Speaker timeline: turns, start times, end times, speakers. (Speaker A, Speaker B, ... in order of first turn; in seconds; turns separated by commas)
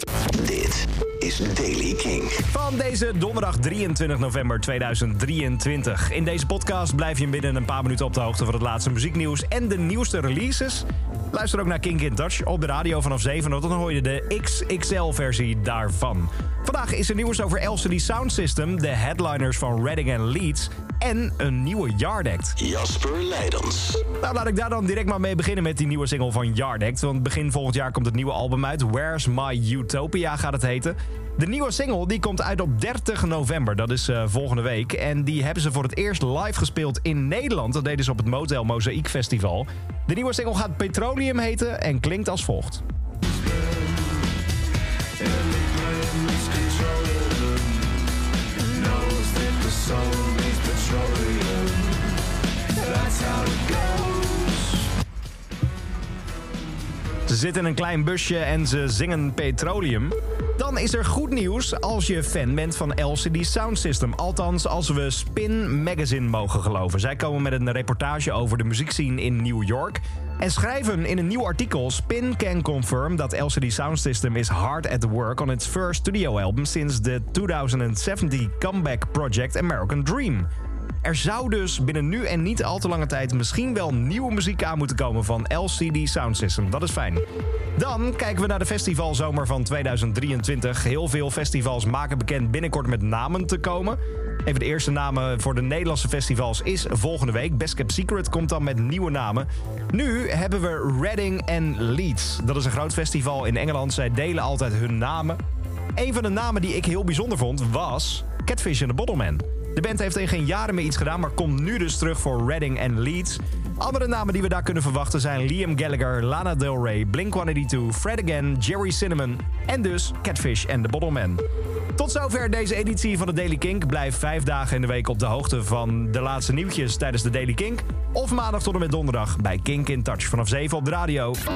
Speaker A: 0.3-2.4, Speaker B: 2.4-22.6, Speaker A: 22.6-24.0, Speaker B: 24.1-42.8, Speaker A: 45.2-47.8, Speaker A: 48.6-52.1, Speaker A: 52.7-54.8, Speaker B: 57.3-80.5, Speaker B: 81.0-87.2, Speaker B: 87.8-105.4, Speaker B: 106.0-121.4, Speaker B: 122.0-131.4